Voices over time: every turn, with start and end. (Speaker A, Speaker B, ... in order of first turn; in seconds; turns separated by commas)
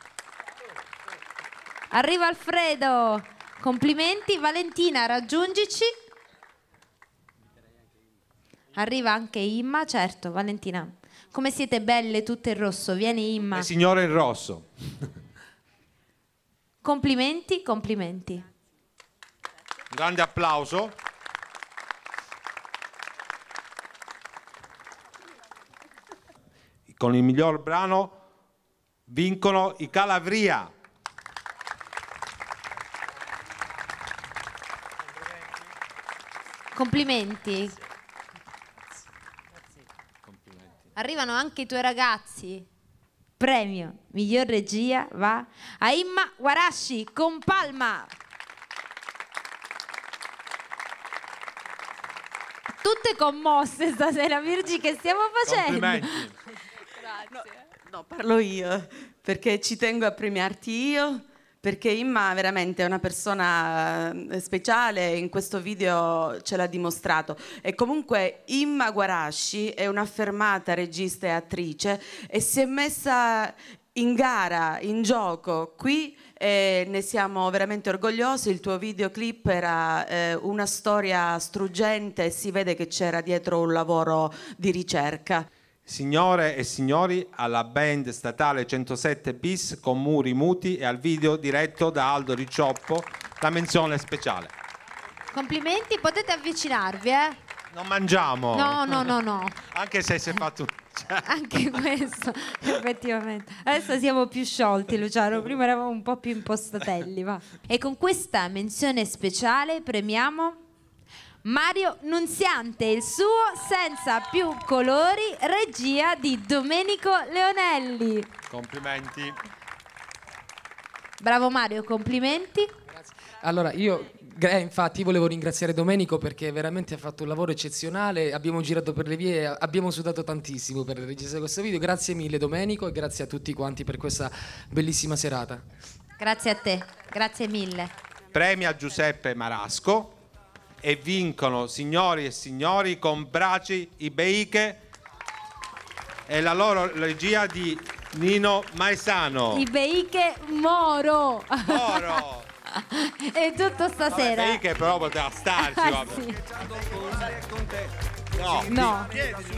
Speaker A: 1.9-5.9, Speaker A: 8.7-13.7, Speaker B: 13.5-14.7, Speaker A: 16.8-18.4, Speaker B: 19.9-21.0, Speaker B: 26.9-28.1, Speaker B: 29.1-30.7, Speaker A: 36.7-37.7, Speaker B: 40.2-40.8, Speaker A: 41.0-42.7, Speaker A: 43.4-48.1, Speaker A: 52.8-56.3, Speaker B: 55.5-56.3, Speaker C: 57.4-85.5, Speaker B: 85.8-94.5, Speaker A: 95.3-97.4, Speaker B: 97.7-101.3, Speaker A: 98.5-99.6, Speaker A: 101.2-110.6, Speaker A: 111.4-118.3, Speaker B: 118.5-119.3, Speaker A: 121.2-122.7, Speaker D: 122.9-135.6, Speaker A: 136.2-137.9, Speaker B: 138.3-140.2, Speaker B: 140.8-144.8, Speaker B: 146.3-149.7, Speaker A: 149.5-154.6, Speaker B: 151.6-152.4, Speaker B: 154.1-156.3, Speaker A: 155.6-156.4, Speaker B: 158.3-159.0, Speaker A: 158.7-159.2